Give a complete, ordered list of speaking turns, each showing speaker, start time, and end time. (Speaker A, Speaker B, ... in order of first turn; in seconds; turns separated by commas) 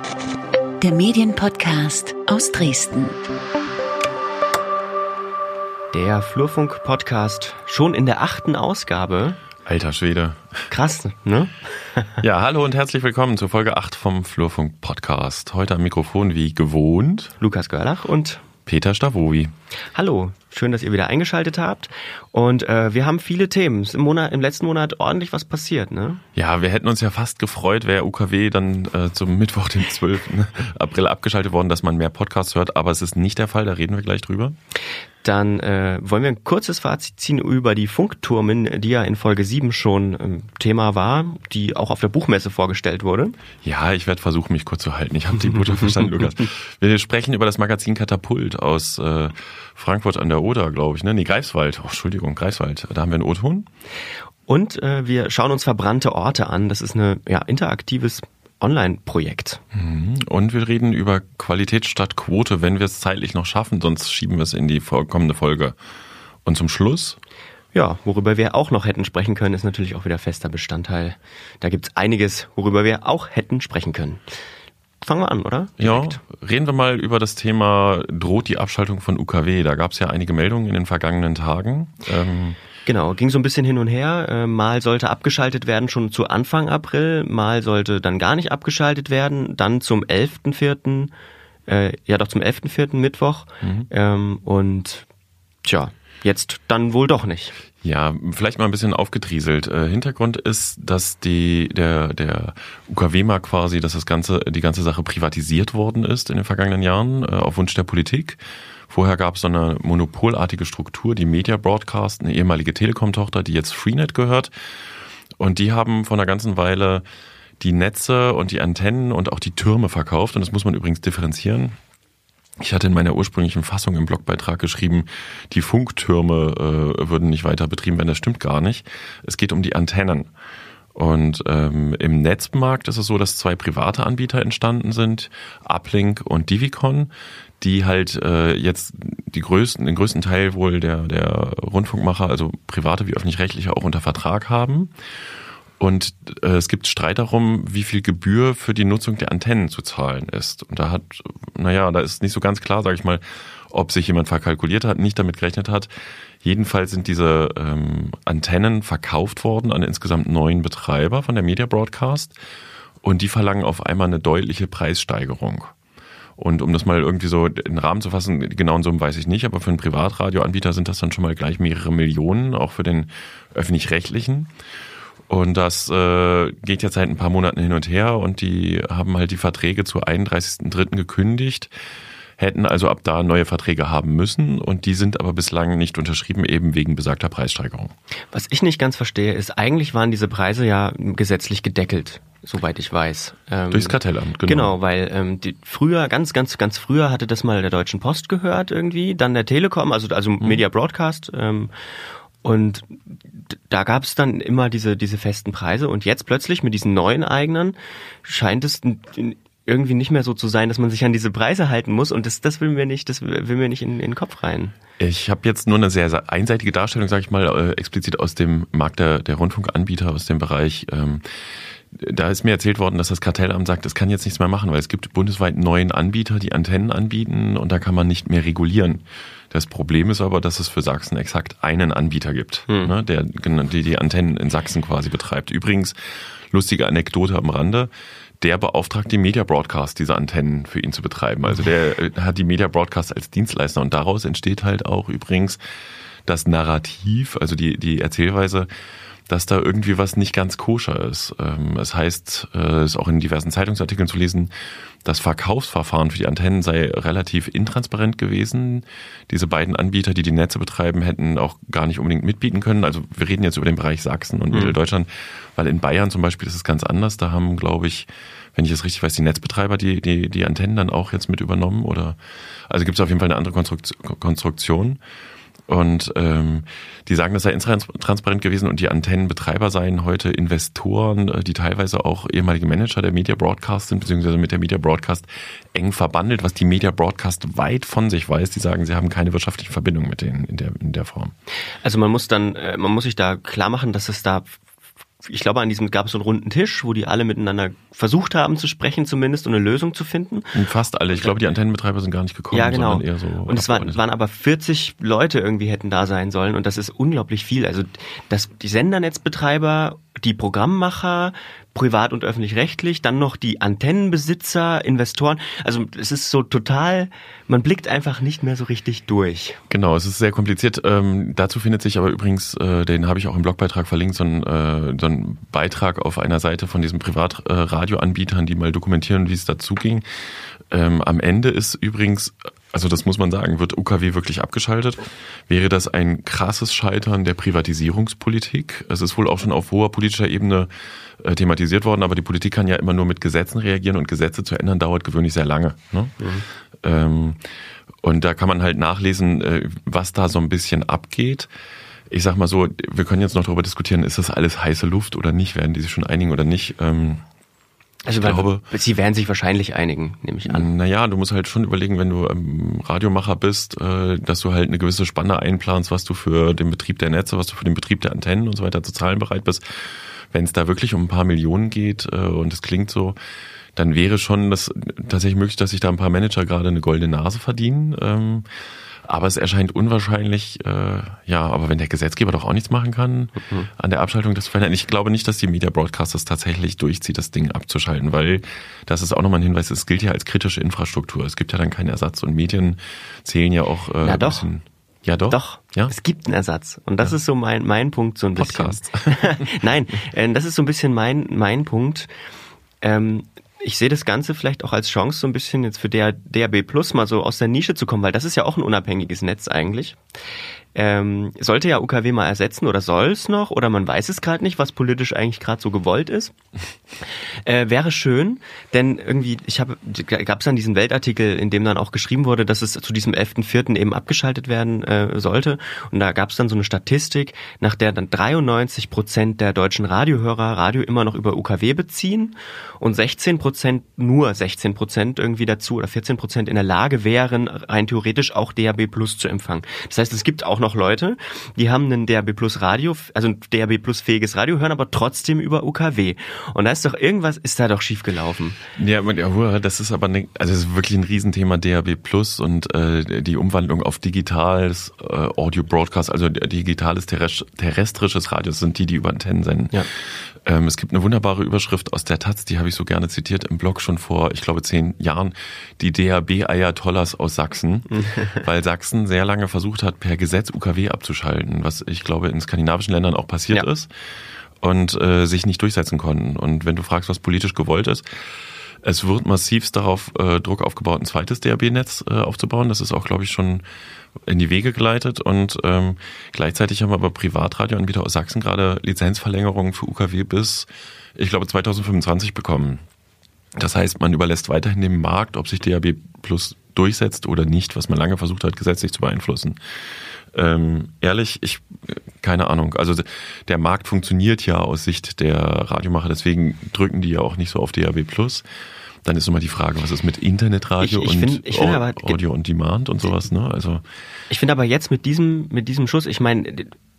Speaker A: 0.8-3.2, Speaker B: 5.9-9.4, Speaker C: 9.7-10.7, Speaker B: 10.7-12.2, Speaker C: 12.2-17.4, Speaker B: 17.4-18.4, Speaker C: 18.7-19.5, Speaker B: 19.9-26.2, Speaker C: 26.4-34.6, Speaker B: 35.2-43.4, Speaker C: 43.6-53.7, Speaker B: 54.5-59.6, Speaker C: 59.7-65.8, Speaker C: 66.5-67.2, Speaker B: 67.7-74.2, Speaker B: 75.0-76.2, Speaker C: 75.8-82.6, Speaker B: 82.9-91.1, Speaker B: 91.7-95.1, Speaker C: 93.6-93.9, Speaker B: 95.6-97.5, Speaker C: 97.8-114.5, Speaker C: 115.4-117.0, Speaker C: 117.6-121.8, Speaker C: 122.6-130.3, Speaker C: 130.9-144.9, Speaker C: 145.8-155.9, Speaker C: 156.4-162.3, Speaker C: 163.0-165.7, Speaker C: 166.4-174.5, Speaker C: 175.3-181.7, Speaker C: 182.4-187.9, Speaker B: 188.3-201.7, Speaker C: 193.7-194.8, Speaker B: 202.4-214.8, Speaker C: 215.0-221.2, Speaker C: 221.9-245.6, Speaker C: 246.3-248.7, Speaker C: 249.3-254.5, Speaker C: 255.0-275.0, Speaker C: 275.7-291.3, Speaker B: 291.8-294.6, Speaker B: 295.2-300.6, Speaker C: 300.5-304.0, Speaker B: 301.1-301.4, Speaker B: 302.5-319.6, Speaker C: 319.7-330.0, Speaker C: 330.7-346.1, Speaker B: 346.2-346.4, Speaker C: 346.8-347.4, Speaker C: 348.0-351.5, Speaker C: 352.1-357.2, Speaker B: 358.1-360.7, Speaker C: 358.1-358.6, Speaker C: 360.4-373.2, Speaker C: 373.8-378.5, Speaker C: 379.1-395.9, Speaker B: 394.0-394.5, Speaker B: 395.3-402.1, Speaker C: 398.4-399.5, Speaker B: 402.8-410.0, Speaker B: 410.8-416.4, Speaker B: 417.4-448.6, Speaker C: 448.8-473.9, Speaker B: 468.0-468.4, Speaker C: 474.6-478.3, Speaker C: 478.8-483.6, Speaker C: 484.2-492.8, Speaker C: 493.6-499.6, Speaker C: 500.3-508.4, Speaker C: 509.0-513.8, Speaker B: 510.8-512.2, Speaker B: 514.3-516.7